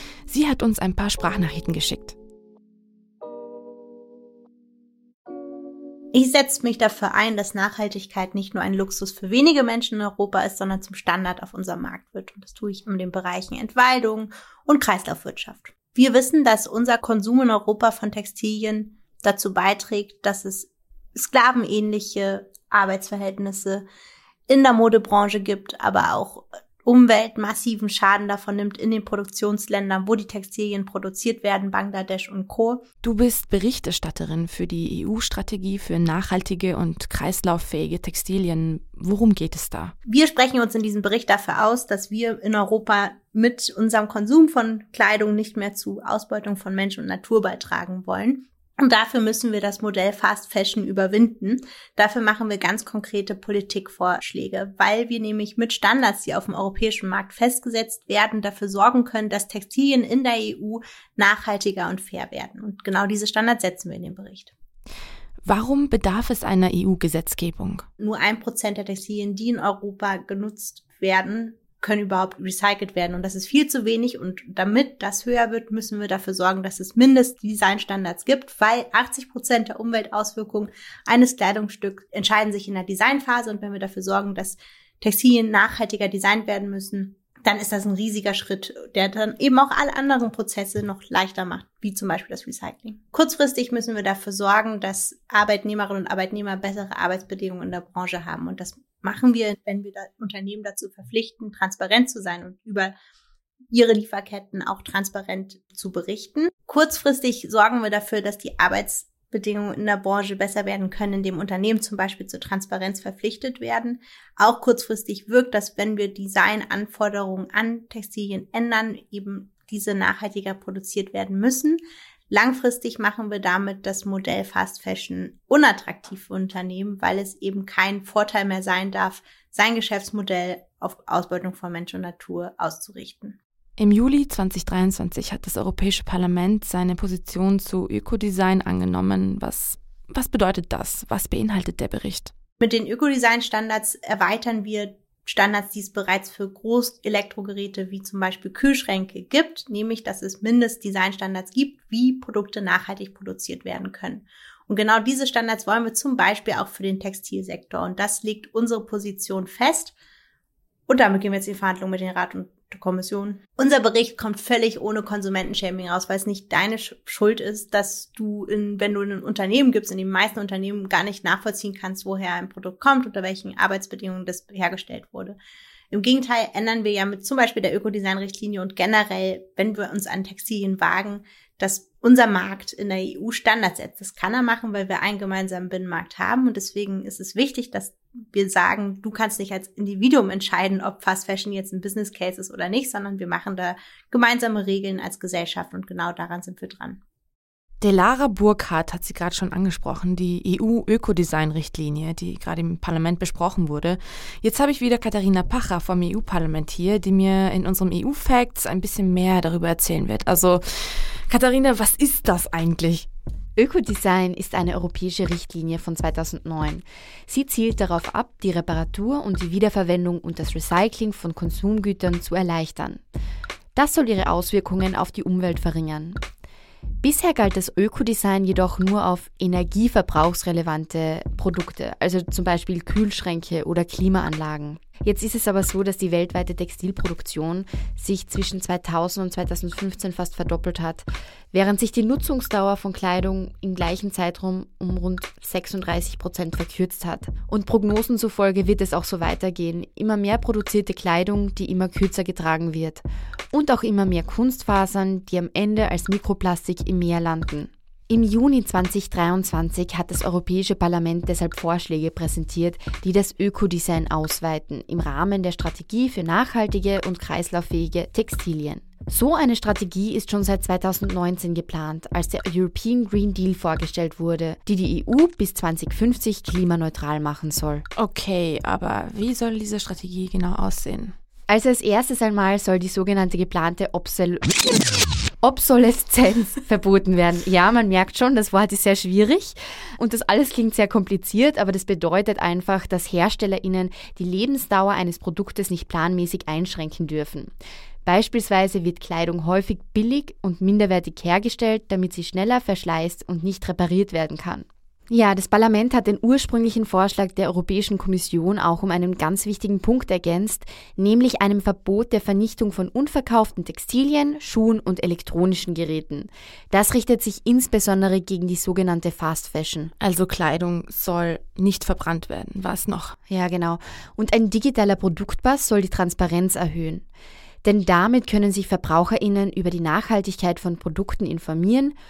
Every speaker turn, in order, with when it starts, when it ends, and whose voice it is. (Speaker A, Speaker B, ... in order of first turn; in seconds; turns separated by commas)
Speaker A: 0.3-2.1, Speaker B: 6.1-23.8, Speaker B: 24.5-32.8, Speaker A: 33.0-39.9, Speaker B: 40.1-64.5, Speaker A: 65.4-67.8, Speaker B: 68.0-102.9, Speaker B: 103.7-133.3, Speaker A: 133.8-142.3, Speaker B: 142.6-159.9, Speaker B: 160.9-175.4, Speaker B: 175.9-197.0, Speaker A: 197.8-213.1, Speaker C: 213.6-223.0, Speaker C: 223.7-226.2, Speaker C: 227.0-277.8, Speaker A: 277.9-281.1, Speaker C: 281.5-284.7, Speaker C: 285.4-297.5, Speaker C: 298.0-319.9, Speaker A: 320.0-323.1, Speaker C: 323.3-327.0, Speaker C: 327.6-331.9